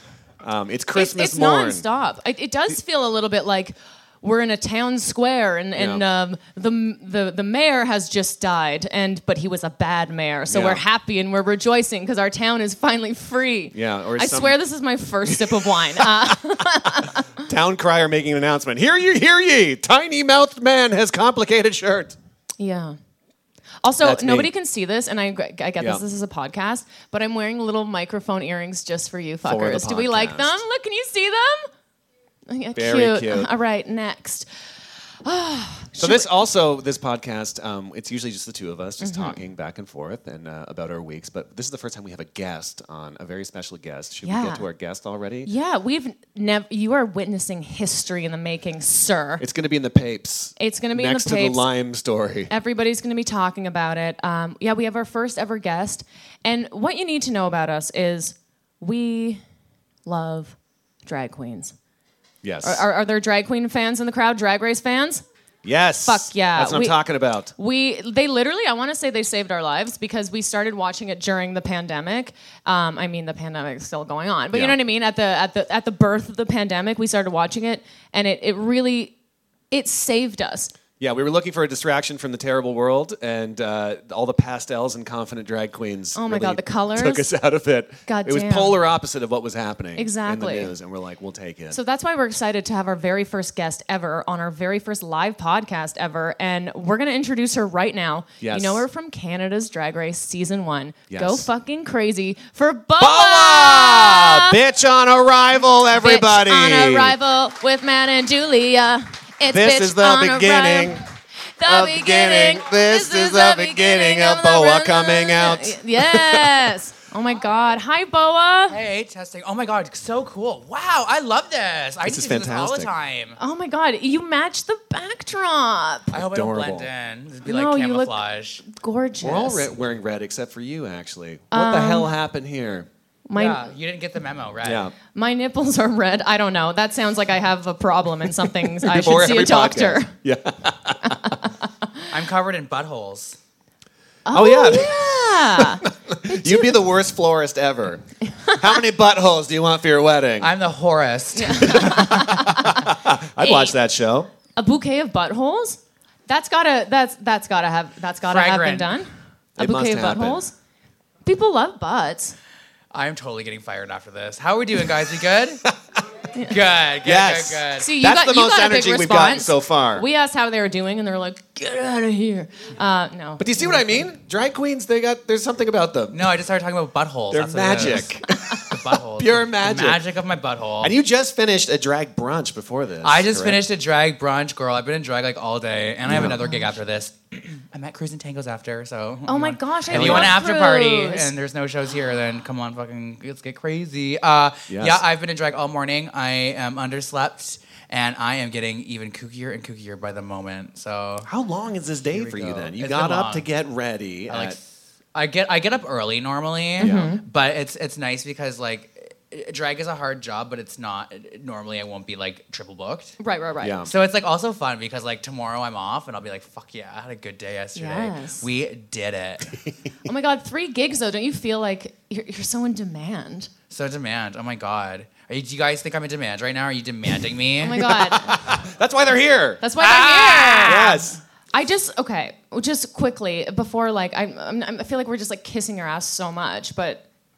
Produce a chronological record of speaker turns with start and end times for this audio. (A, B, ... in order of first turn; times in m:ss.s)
0:00.4-0:01.8 A
0:00.9-0:17.3 B
0:05.8-0:06.0 A
0:10.5-0:10.8 A
0:13.7-0:14.6 A
0:15.2-0:22.2 A
0:22.6-0:23.0 B
0:23.8-0:31.7 B
0:24.0-0:24.5 A
0:29.4-0:30.6 A
0:32.5-0:34.5 B
0:32.7-0:33.5 A
0:35.2-0:36.4 B
0:36.0-0:45.5 A
0:39.0-0:39.4 B
0:44.2-0:44.6 B
0:45.4-0:49.4 B
0:49.4-0:52.5 A
0:50.6-0:51.6 B
0:52.5-0:59.4 B
1:00.0-1:01.7 B
1:02.4-1:02.8 A
1:02.6-1:05.2 B
1:05.6-1:07.5 A
1:06.0-1:07.0 B
1:07.5-1:19.2 B
1:19.7-1:20.7 B
1:21.0-1:31.8 A
1:26.2-1:27.3 B
1:28.1-1:28.8 B
1:30.0-1:30.7 B
1:31.7-1:44.5 B
1:38.4-1:38.8 A
1:41.1-1:41.5 A
1:43.0-1:47.2 A
1:45.9-1:51.0 B
1:49.5-1:51.0 A
1:51.6-1:58.8 B
1:51.6-1:56.8 A
1:58.7-2:03.4 C
2:02.0-2:02.9 A
2:03.4-2:06.2 B
2:06.1-2:08.6 C
2:06.2-2:06.9 A
2:07.4-2:09.7 B
2:09.2-2:12.9 A
2:11.5-2:12.1 B
2:13.3-2:13.6 B
2:13.4-2:14.9 C
2:14.6-2:14.9 A
2:15.1-2:20.1 B
2:18.6-2:21.4 A
2:22.1-2:23.4 C
2:24.2-2:26.8 B
2:24.3-2:30.5 A
2:30.4-2:32.7 C
2:31.3-2:33.8 B
2:31.6-2:34.3 A
2:34.6-2:40.5 B
2:38.3-2:39.0 C
2:39.6-2:40.4 A
2:41.2-2:42.4 B
2:42.9-2:45.7 C
2:46.3-2:46.6 B
2:46.5-2:47.9 C
2:47.0-2:50.0 A
2:47.8-2:54.1 B
2:53.4-2:56.3 A
2:56.1-3:00.9 C
2:57.3-3:00.0 A
3:00.8-3:03.6 A
3:03.0-3:21.3 C
3:06.1-3:06.4 A
3:06.1-3:06.6 B
3:09.3-3:11.3 B
3:09.9-3:10.3 A
3:14.7-3:15.0 A
3:21.2-3:24.6 A
3:22.1-3:23.5 C
3:24.3-3:33.2 C
3:26.8-3:27.2 B
3:26.8-3:27.1 A
3:33.2-3:33.8 B
3:33.6-3:33.9 A
3:33.9-3:39.6 C
3:37.8-3:38.4 B
3:40.0-3:43.5 B
3:43.7-3:47.9 C
3:47.6-3:48.4 B
3:47.7-3:49.6 A
3:49.6-3:57.0 B
3:49.8-3:51.0 C
3:50.6-3:51.2 A